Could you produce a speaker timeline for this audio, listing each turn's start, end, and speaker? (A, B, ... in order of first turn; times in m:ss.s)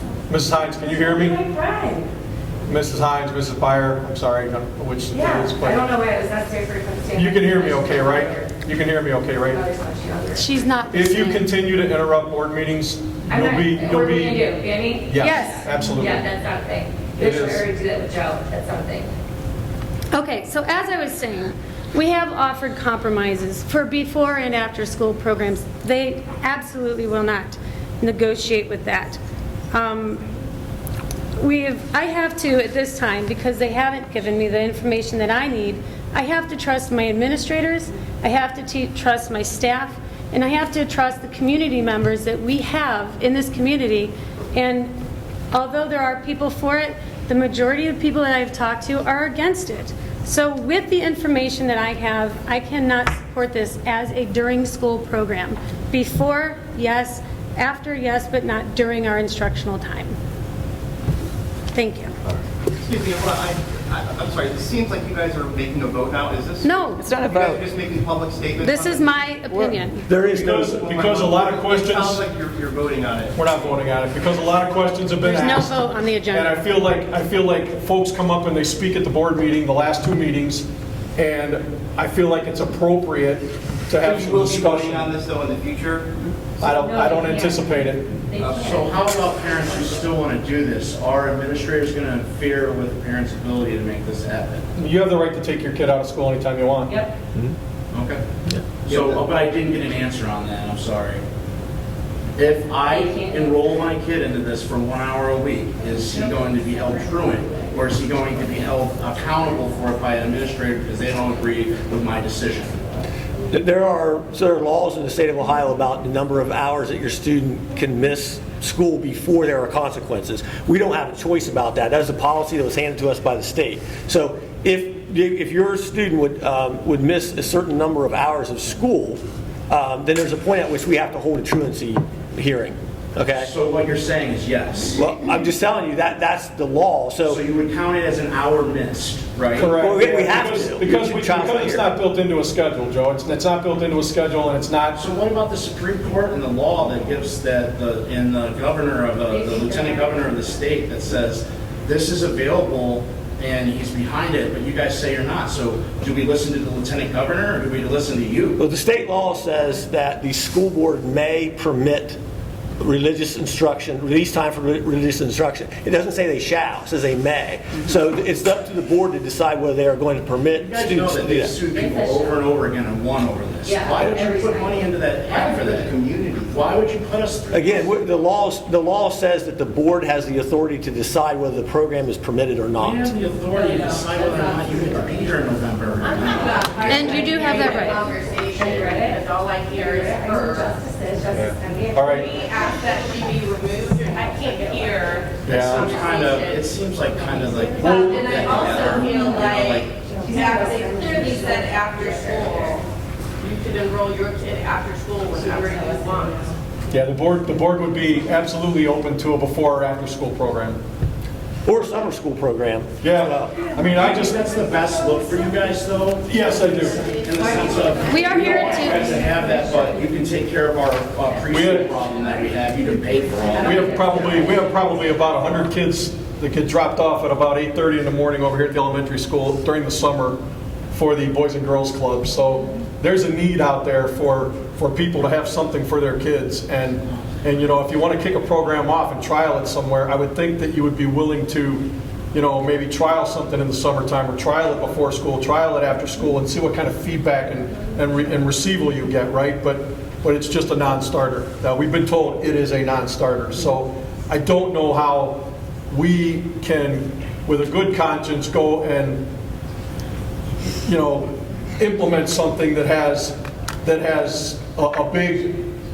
0:00.3-0:01.4 A
0:01.0-0:02.1 B
0:02.7-0:05.9 A
0:05.1-0:08.5 B
0:07.1-0:09.6 A
0:09.4-0:10.4 B
0:10.3-0:11.5 C
0:10.9-0:14.5 A
0:13.3-0:19.1 B
0:15.1-0:16.3 A
0:15.2-0:15.7 C
0:17.2-0:17.7 A
0:20.1-0:29.2 C
0:29.7-0:30.2 C
0:31.4-0:45.0 C
0:45.5-1:00.2 C
1:01.7-1:02.2 C
1:02.8-1:09.2 D
1:06.6-1:07.4 C
1:08.6-1:10.1 C
1:10.1-1:10.6 E
1:10.2-1:13.4 D
1:10.3-1:12.2 A
1:13.4-1:25.1 A
1:15.2-1:16.6 C
1:24.0-1:26.1 D
1:26.6-1:28.2 A
1:26.7-1:28.9 B
1:28.5-1:34.7 F
1:34.8-1:36.9 A
1:36.9-1:37.1 B
1:37.9-1:38.2 F
1:38.5-1:38.9 E
1:38.8-1:41.2 F
1:42.4-1:52.8 F
1:42.9-1:43.6 B
1:53.5-2:13.5 E
2:13.3-2:15.0 F
2:15.0-2:17.4 E
2:17.2-2:19.7 F
2:19.6-2:25.0 A
2:19.6-2:21.9 E
2:24.9-2:38.6 F
2:29.3-2:30.2 B
2:38.6-2:42.2 E
2:42.8-2:51.6 E
2:50.6-2:57.8 F
2:51.7-2:52.4 B
2:53.6-2:54.9 B
2:55.2-2:56.7 D
2:57.5-3:03.1 E
3:02.8-3:07.4 F
3:03.5-3:04.3 B
3:06.2-3:12.2 B
3:06.4-3:10.7 G
3:06.9-3:08.0 C
3:11.3-3:12.3 A
3:12.2-3:16.6 G
3:15.4-3:20.0 F
3:15.4-3:15.9 A
3:17.7-3:19.4 B
3:17.8-3:22.8 G
3:20.0-3:22.7 B
3:23.4-3:26.4 G
3:25.4-3:26.5 B
3:26.9-3:30.8 A
3:31.6-3:33.5 E
3:33.0-3:34.4 A
3:33.9-3:36.4 F
3:36.2-3:37.1 A
3:37.0-3:44.4 F
3:37.4-3:39.3 B
3:38.1-3:39.3 C
3:41.5-3:41.9 A
3:43.6-3:44.3 B
3:43.6-3:50.4 A
3:50.9-4:19.2 A
4:20.8-4:25.7 A